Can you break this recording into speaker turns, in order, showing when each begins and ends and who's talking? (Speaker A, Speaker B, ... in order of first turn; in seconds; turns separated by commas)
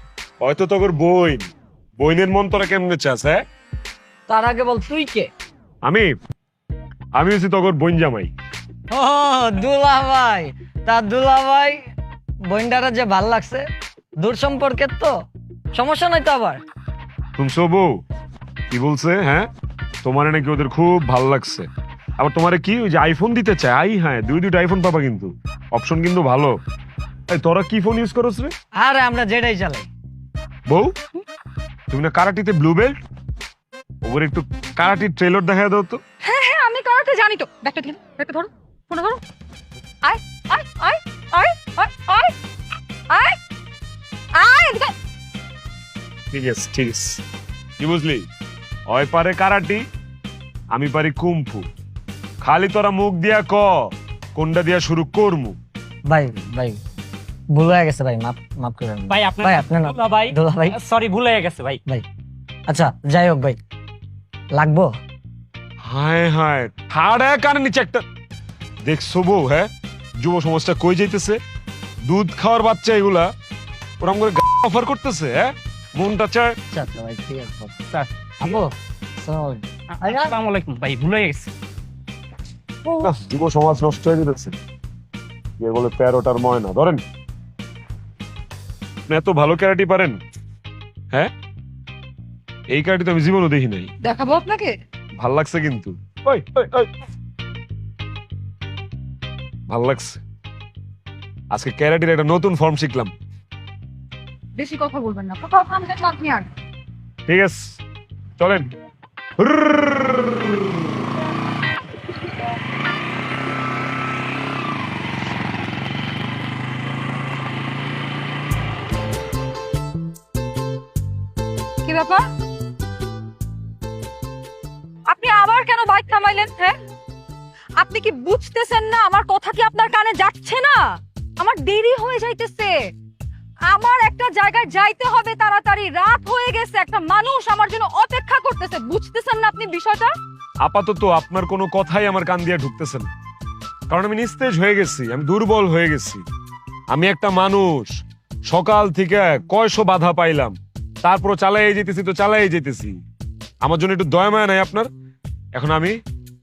Speaker A: 0.4-1.5, Speaker A: 2.0-3.4, Speaker B: 4.3-5.3, Speaker A: 5.8-6.1, Speaker A: 7.2-8.3, Speaker B: 8.9-11.8, Speaker B: 12.5-13.7, Speaker B: 14.2-15.2, Speaker B: 15.7-16.6, Speaker A: 17.4-18.0, Speaker A: 18.7-19.5, Speaker A: 20.0-21.7, Speaker A: 22.2-26.6, Speaker A: 27.3-28.5, Speaker B: 28.8-29.9, Speaker A: 30.7-30.9, Speaker A: 31.9-33.0, Speaker A: 34.0-36.0, Speaker C: 36.2-39.2, Speaker C: 40.0-42.3, Speaker C: 43.1-43.4, Speaker C: 44.4-44.9, Speaker A: 46.3-47.2, Speaker A: 47.8-48.2, Speaker A: 48.9-49.8, Speaker A: 50.7-51.6, Speaker A: 52.4-55.5, Speaker B: 56.1-56.8, Speaker B: 57.5-60.8, Speaker D: 59.1-61.8, Speaker B: 62.7-63.6, Speaker B: 64.5-65.0, Speaker A: 65.8-68.0, Speaker A: 68.8-71.4, Speaker A: 72.0-73.3, Speaker A: 74.0-76.5, Speaker B: 76.7-77.8, Speaker D: 77.9-78.6, Speaker B: 78.4-80.3, Speaker D: 79.9-81.5, Speaker A: 83.0-84.5, Speaker A: 85.6-87.0, Speaker A: 89.1-90.2, Speaker A: 92.7-93.9, Speaker C: 94.0-94.8, Speaker A: 95.2-96.9, Speaker A: 99.7-100.2, Speaker A: 101.5-103.1, Speaker C: 104.5-106.5, Speaker A: 107.3-107.8, Speaker A: 108.4-108.7, Speaker A: 109.4-110.8, Speaker C: 121.8-122.2, Speaker C: 125.1-126.8, Speaker C: 127.8-132.8, Speaker C: 133.7-140.1, Speaker A: 140.6-143.1, Speaker A: 143.9-146.2, Speaker A: 146.9-153.0, Speaker A: 153.6-154.9, Speaker A: 155.5-156.0